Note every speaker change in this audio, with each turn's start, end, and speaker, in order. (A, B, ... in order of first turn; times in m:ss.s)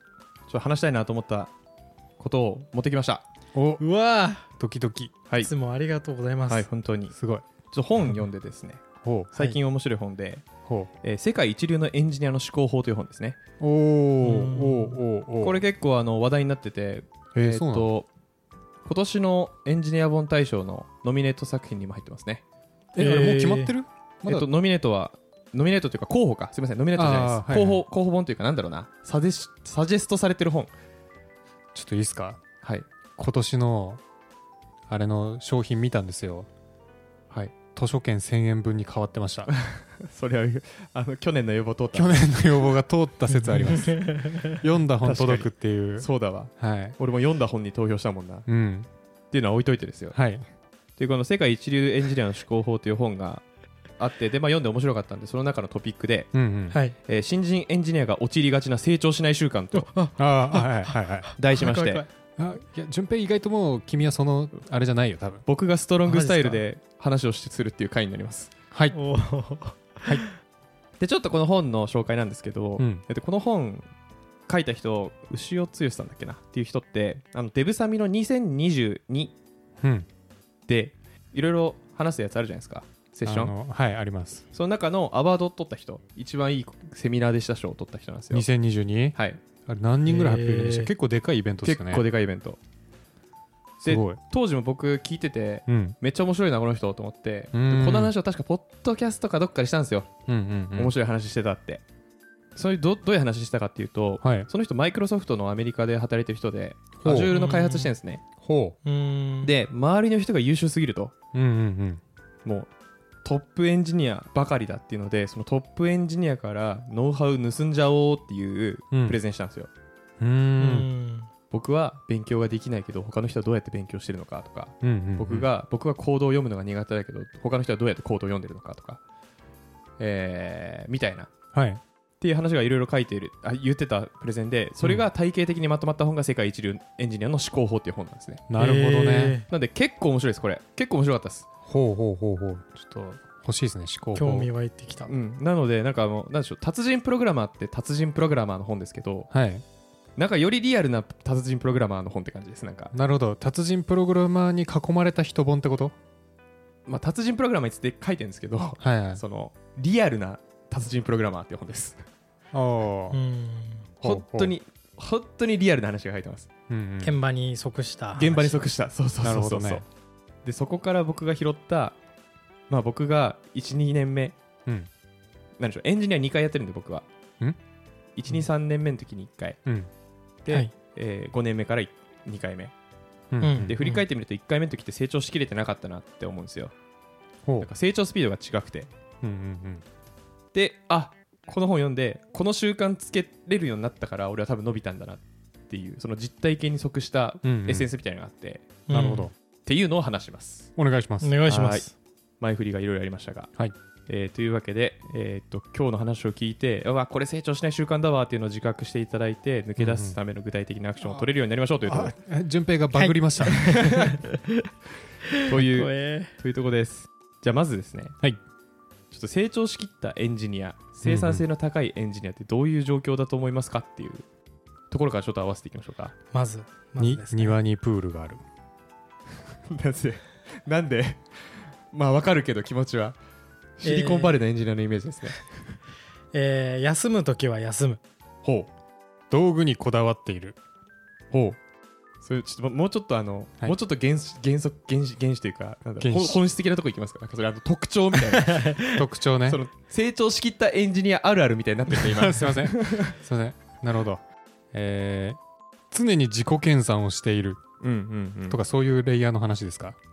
0:00.5-0:01.5 A
0:02.2-0:03.2 A
0:03.5-0:03.8 B
0:03.8-0:04.5 C
0:04.6-0:05.1 B
0:05.4-0:06.7 C
0:06.5-0:07.1 A
0:07.1-0:07.4 B
0:07.7-0:10.4 A
0:09.0-0:09.3 B
0:11.0-0:13.4 A
0:13.6-0:15.6 B
0:14.2-0:15.0 C
0:15.4-0:18.1 A
0:17.3-0:17.9 B
0:18.8-0:22.4 A
0:22.9-0:24.5 B
0:23.0-0:23.7 C
0:24.2-0:30.7 A
0:26.9-0:27.8 B
0:31.7-0:32.4 B
0:32.6-0:32.9 A
0:33.2-0:34.0 B
0:34.9-0:36.5 B
0:37.7-0:39.5 B
0:39.5-0:42.3 A
0:41.9-0:47.0 B
0:43.5-0:44.5 C
0:45.0-0:48.5 A
0:48.5-0:48.9 B
0:49.3-0:50.2 A
0:50.1-0:50.4 B
0:51.0-0:53.4 A
0:54.0-0:56.3 A
0:56.3-0:56.8 B
0:57.0-0:59.9 A
0:59.7-1:02.0 C
1:00.2-1:01.3 B
1:01.4-1:02.0 A
1:02.4-1:05.4 B
1:05.4-1:08.5 A
1:06.0-1:06.6 C
1:08.9-1:10.3 C
1:11.0-1:13.9 A
1:12.8-1:13.0 B
1:14.5-1:19.3 A
1:19.8-1:20.1 B
1:20.7-1:23.5 A
1:23.2-1:24.4 B
1:24.5-1:28.4 A
1:28.3-1:32.0 B
1:29.1-1:29.4 A
1:30.1-1:30.9 C
1:31.6-1:32.6 A
1:33.8-1:34.2 B
1:33.8-1:40.1 A
1:35.7-1:36.0 B
1:37.5-1:38.1 B
1:40.3-1:40.9 B
1:40.7-1:41.8 A
1:42.6-1:48.2 A
1:44.2-1:44.5 B
1:47.0-1:47.3 B
1:47.3-1:47.9 C
1:48.4-1:48.8 B
1:48.8-1:49.5 C
1:49.4-1:51.1 A
1:51.3-1:52.0 B
1:52.4-1:52.7 A
1:53.2-1:59.7 A
1:58.9-1:59.2 B
2:00.2-2:00.9 B
2:00.6-2:01.3 C
2:01.5-2:09.0 A
2:04.8-2:05.5 B
2:10.0-2:11.3 A
2:11.5-2:11.8 B
2:12.2-2:18.4 A
2:18.5-2:19.4 B
2:18.6-2:19.5 C
2:19.5-2:21.5 A
2:21.6-2:24.5 B
2:24.2-2:25.1 C
2:25.1-2:29.3 A
2:29.3-2:29.6 B
2:30.2-2:32.9 A
2:32.9-2:35.9 B
2:36.9-2:42.0 A
2:38.8-2:39.2 B
2:42.5-2:43.2 B
2:43.1-2:43.9 C
2:44.0-2:44.5 B
2:44.0-2:46.5 A
2:46.7-2:47.1 B
2:47.0-2:48.6 C
2:48.2-2:49.8 A
2:49.2-2:49.8 B
2:50.4-2:52.0 A
2:52.7-2:54.4 A
2:55.6-2:57.0 A
2:58.2-2:59.6 A
3:00.4-3:02.7 A
3:03.3-3:03.8 B
3:03.4-3:04.0 C
3:03.6-3:06.7 A
3:07.6-3:08.9 A
3:09.2-3:09.8 B
3:10.5-3:18.7 A
3:17.4-3:17.9 B
3:18.9-3:19.3 C
3:18.9-3:19.3 B
3:19.6-3:20.7 A
3:20.8-3:21.4 B
3:21.2-3:21.9 C
3:21.5-3:21.9 A
3:22.4-3:23.5 A
3:24.1-3:32.1 A
3:29.8-3:30.2 B
3:31.8-3:33.9 B
3:32.9-3:34.6 C
3:33.6-3:34.2 A
3:35.3-3:36.3 C
3:35.4-3:38.2 A
3:39.1-3:44.2 A
3:41.0-3:41.4 B
3:44.9-3:46.1 A
3:46.3-3:47.6 C
3:47.0-3:48.4 B
3:49.7-3:51.2 A
3:51.9-3:53.2 A
3:53.8-3:55.4 A
3:53.8-3:54.4 C
3:56.3-3:58.0 C
3:58.4-3:58.7 A
3:59.3-4:00.6 B
4:01.3-4:01.6 A
4:02.2-4:08.8 A
4:06.0-4:06.4 B
4:08.4-4:08.8 C
4:08.9-4:09.6 B
4:09.4-4:13.1 A
4:11.9-4:15.4 B
4:15.9-4:17.6 B
4:17.8-4:18.6 A
4:18.5-4:20.0 B